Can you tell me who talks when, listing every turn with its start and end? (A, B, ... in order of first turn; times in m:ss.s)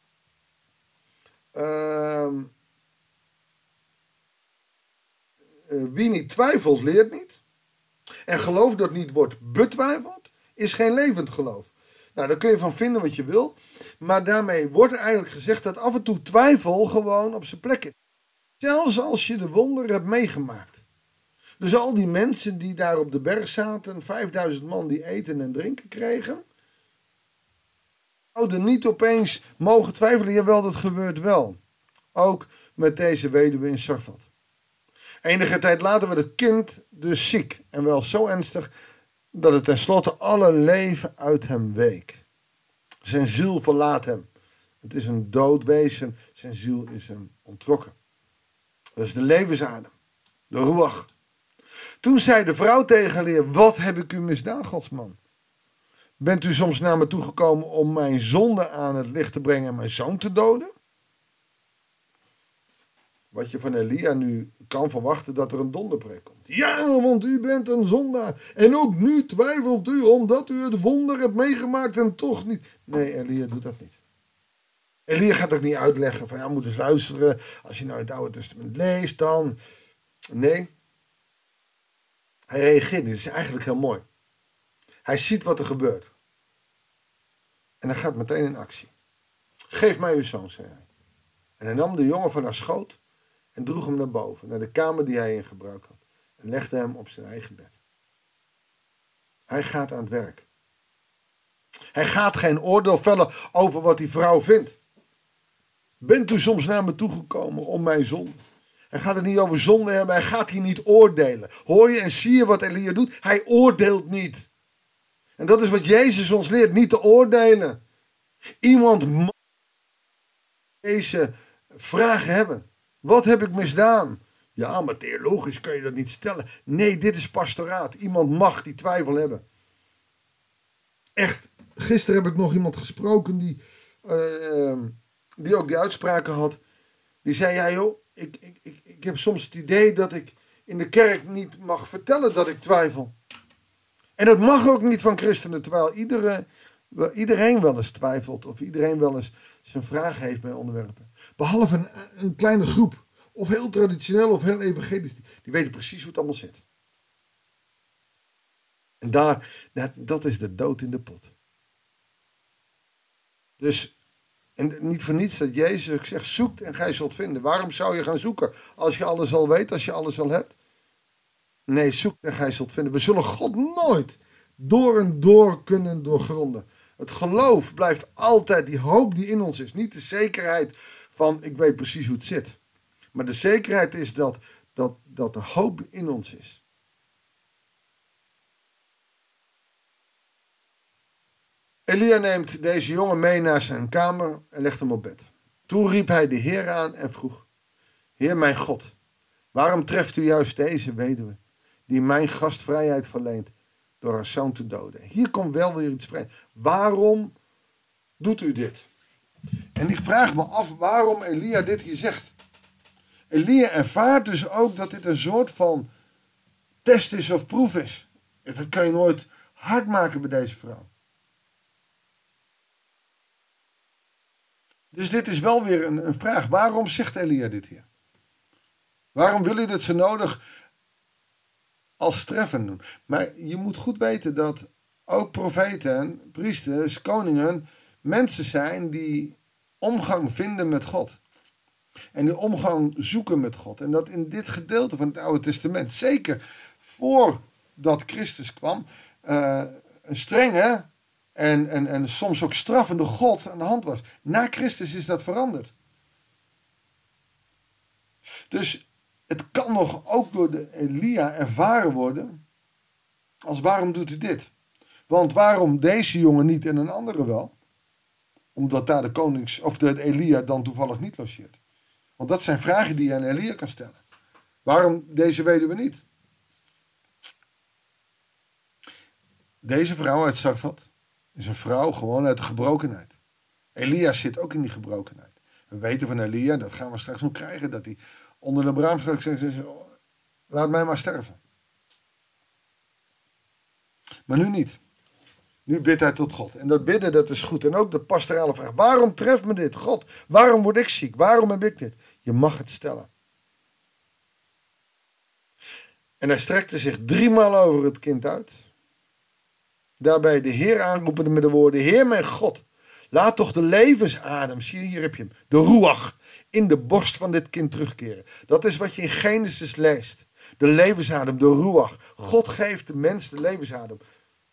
0:01.5-0:02.5 A
0:05.7-0:07.4 A
0:08.3-0:18.0 A
0:18.6-0:20.8 A
0:21.6-0:26.4 A
0:28.4-0:31.6 A
0:32.1-0:34.3 A
0:35.2-0:38.7 A
0:39.3-0:42.2 A
0:43.0-0:44.3 A
0:44.8-0:47.9 A
0:49.0-0:49.9 A
0:50.5-0:51.1 A
0:52.0-0:55.2 A
0:56.2-1:00.7 A
1:03.3-1:14.0 A
1:15.1-1:19.6 A
1:20.3-1:20.7 A
1:22.5-1:24.0 A
1:25.1-1:26.1 A
1:27.8-1:28.9 A
1:29.7-1:30.9 A
1:31.6-1:33.0 A
1:33.6-1:37.8 A
1:39.5-1:40.4 A
1:42.0-1:44.8 A
1:46.0-1:54.5 A
1:55.4-1:57.8 A
1:58.6-1:59.3 A
2:00.8-2:09.4 A
2:11.2-2:16.6 A
2:17.2-2:23.1 A
2:24.2-2:36.6 A
2:39.0-2:41.3 A
2:43.6-2:43.9 A
2:44.6-2:50.5 A
2:51.7-3:02.6 A
3:03.1-3:06.6 A
3:11.9-3:17.5 A
3:18.2-3:18.9 A
3:19.5-3:27.3 A
3:28.2-3:28.9 A
3:29.8-3:32.3 A
3:33.3-3:35.9 A
3:36.8-3:40.9 A
3:44.9-3:47.9 A
3:49.1-3:50.4 A
3:52.0-4:01.2 A
4:02.1-4:15.7 A
4:18.5-4:22.4 A
4:23.5-4:24.5 A
4:25.1-4:27.5 A
4:28.6-4:31.6 A
4:32.2-4:34.0 A
4:34.6-4:36.0 A
4:39.6-4:43.2 A
4:43.8-4:49.9 A
4:50.5-4:51.4 A
4:54.3-4:54.8 A
4:55.7-5:03.1 A
5:06.2-5:08.6 A
5:10.0-5:24.0 A